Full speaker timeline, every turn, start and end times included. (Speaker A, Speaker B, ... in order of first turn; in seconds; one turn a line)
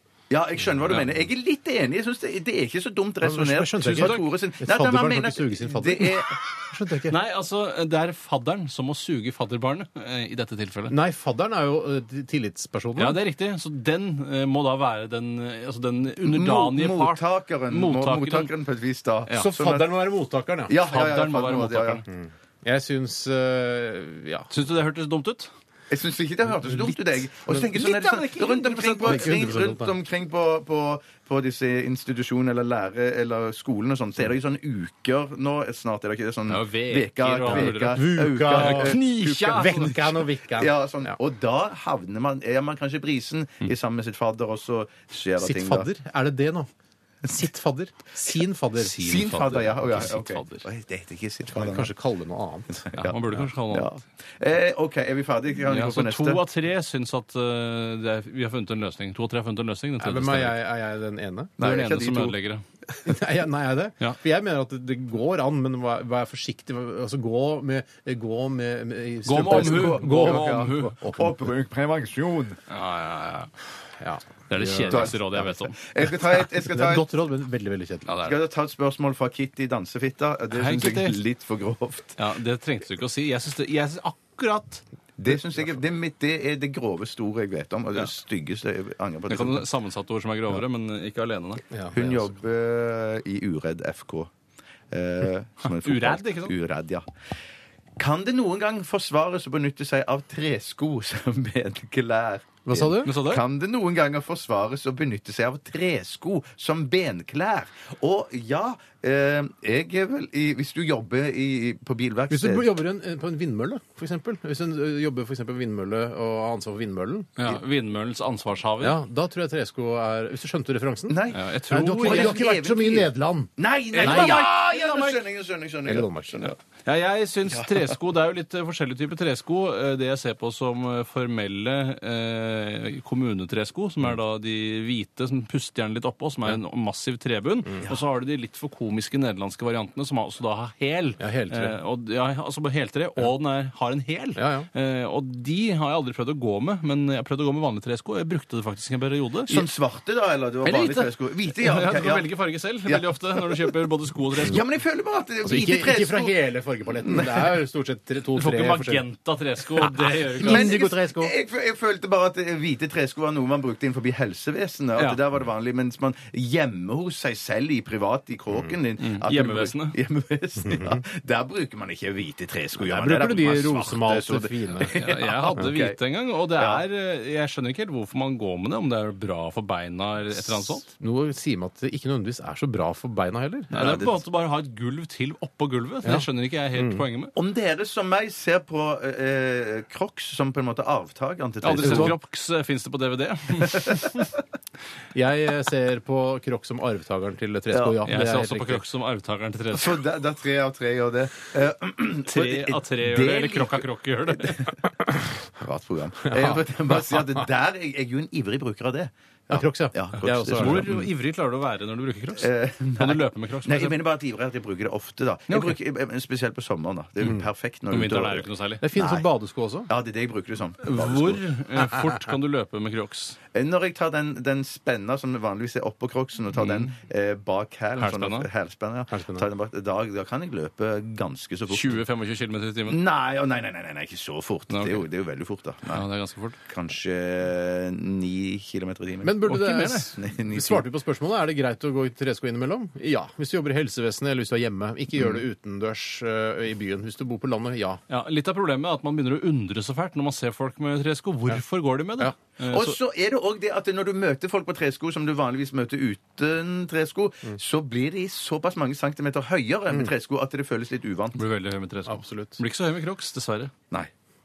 Speaker A: 0.3-6.4
Speaker B: 3.2-7.2
Speaker C: 4.0-4.2
Speaker C: 7.1-10.9
Speaker B: 10.9-13.2
Speaker C: 13.0-18.5
Speaker A: 16.2-19.9
Speaker B: 19.3-20.7
Speaker A: 20.7-22.0
Speaker C: 20.8-22.1
Speaker B: 22.1-24.5
Speaker C: 24.5-25.5
Speaker A: 25.9-40.0
Speaker B: 26.6-27.9
Speaker C: 27.7-29.5
Speaker B: 29.0-29.9
Speaker C: 36.5-40.1
Speaker B: 37.5-41.1
Speaker A: 40.5-45.9
Speaker B: 45.4-46.7
Speaker B: 47.2-49.3
Speaker C: 48.8-50.7
Speaker A: 48.9-51.9
Speaker B: 51.5-52.9
Speaker A: 52.9-53.2
Speaker C: 53.0-53.9
Speaker A: 53.7-56.4
Speaker C: 55.7-60.6
Speaker B: 60.0-61.5
Speaker A: 61.6-62.4
Speaker C: 61.6-62.6
Speaker B: 62.9-71.4
Speaker C: 69.2-71.0
Speaker A: 69.4-72.6
Speaker C: 72.7-73.5
Speaker B: 74.0-75.2
Speaker C: 74.5-75.8
Speaker A: 74.9-77.1
Speaker B: 76.6-78.1
Speaker C: 78.1-78.3
Speaker A: 78.2-82.2
Speaker C: 80.5-81.2
Speaker C: 82.2-84.8
Speaker A: 85.2-89.7
Speaker C: 89.3-91.6
Speaker B: 91.7-92.3
Speaker A: 91.9-94.3
Speaker A: 94.9-97.0
Speaker C: 95.6-96.5
Speaker A: 98.0-112.7
Speaker B: 102.7-103.1
Speaker C: 103.0-103.4
Speaker B: 112.3-117.5
Speaker C: 117.4-119.0
Speaker B: 118.8-124.6
Speaker A: 121.1-121.5
Speaker C: 121.3-122.4
Speaker A: 122.0-126.5
Speaker C: 123.9-125.2
Speaker B: 125.9-126.5
Speaker C: 126.5-149.7
Speaker B: 141.2-141.8
Speaker B: 144.4-144.7
Speaker A: 149.5-152.3
Speaker C: 150.6-154.6
Speaker A: 154.4-156.3
Speaker B: 155.4-159.0
Speaker A: 157.0-157.5
Speaker C: 158.3-160.8
Speaker B: 159.8-161.3
Speaker A: 160.4-176.0
Speaker C: 169.0-170.0
Speaker B: 170.7-171.0
Speaker B: 172.8-174.9
Speaker C: 174.9-180.9
Speaker A: 176.6-176.8
Speaker B: 180.7-183.7
Speaker C: 183.7-187.3
Speaker A: 183.8-184.2
Speaker B: 186.0-187.0
Speaker A: 187.3-192.2
Speaker C: 191.6-194.3
Speaker B: 191.8-192.2
Speaker B: 195.1-198.8
Speaker A: 197.7-198.0
Speaker C: 198.1-200.0
Speaker A: 199.7-203.8
Speaker C: 202.3-204.7
Speaker A: 204.4-204.7
Speaker A: 205.6-211.0
Speaker B: 206.3-207.2
Speaker B: 209.5-210.9
Speaker C: 210.5-214.0
Speaker A: 212.4-219.3
Speaker C: 215.5-215.8
Speaker C: 217.9-218.8
Speaker B: 218.8-219.9
Speaker A: 219.9-221.4
Speaker C: 220.8-223.4
Speaker A: 223.5-232.0
Speaker C: 226.6-226.9
Speaker C: 228.0-228.5
Speaker B: 229.1-229.5
Speaker C: 231.7-233.0
Speaker A: 232.9-236.0
Speaker C: 234.7-235.0
Speaker C: 235.9-236.6
Speaker A: 236.7-239.4
Speaker B: 239.2-248.0
Speaker C: 239.4-240.1
Speaker A: 240.2-240.8
Speaker C: 248.1-253.0
Speaker A: 252.7-261.4
Speaker C: 261.4-263.7
Speaker B: 262.1-262.6